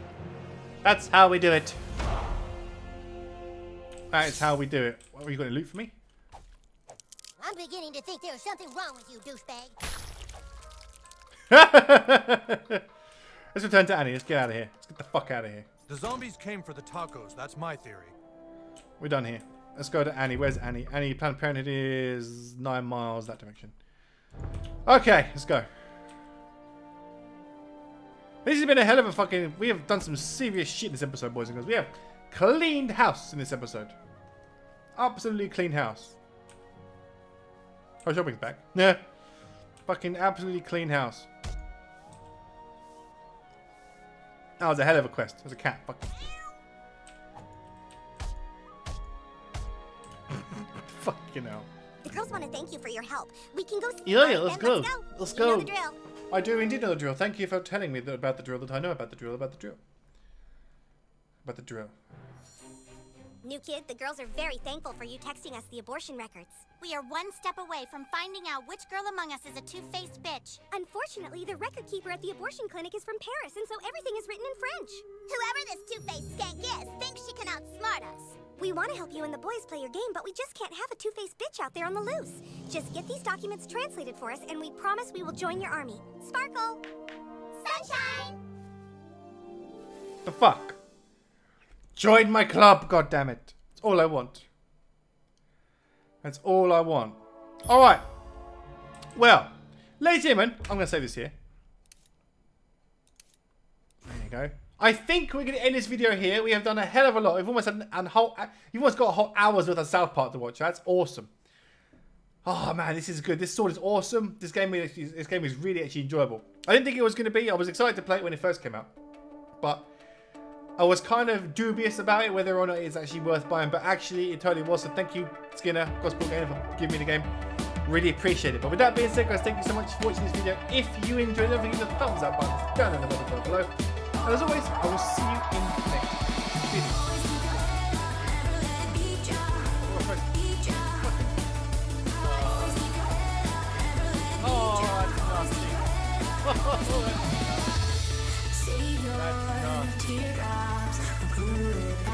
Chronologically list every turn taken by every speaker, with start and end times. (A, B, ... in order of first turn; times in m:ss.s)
0:00.8-0:01.8 A
0:04.1-0:05.9 A
0:07.4-0:09.8 B
0:11.5-0:12.8 A
0:13.5-0:15.7 A
0:15.9-0:18.1 C
0:19.0-0:23.7 A
0:24.8-0:25.7 A
0:28.4-0:33.9 A
0:35.0-0:36.2 A
0:38.0-0:39.0 A
0:39.8-0:41.3 A
0:44.6-0:46.2 A
0:50.8-0:51.7 A
0:52.0-0:56.0 D
0:54.0-0:55.7 A
0:56.3-0:59.8 A
1:01.4-1:01.9 A
1:03.4-1:06.7 D
1:06.8-1:10.6 E
1:10.7-1:15.1 D
1:15.2-1:18.4 E
1:18.6-1:26.8 D
1:27.6-1:28.4 E
1:27.7-1:28.1 D
1:30.2-1:30.8 A
1:32.0-1:34.4 A
1:36.2-1:38.0 A
1:39.1-1:41.3 A
1:44.0-1:51.3 A
1:52.4-1:58.9 A
1:59.6-1:59.9 A
2:00.8-2:07.3 A
2:07.8-2:17.2 A
2:17.2-2:19.5 B
2:19.6-2:21.4 A
2:22.2-2:23.0 A
2:23.8-2:25.9 A
2:26.4-2:27.8 A
2:29.0-2:30.6 A
2:31.2-2:31.6 A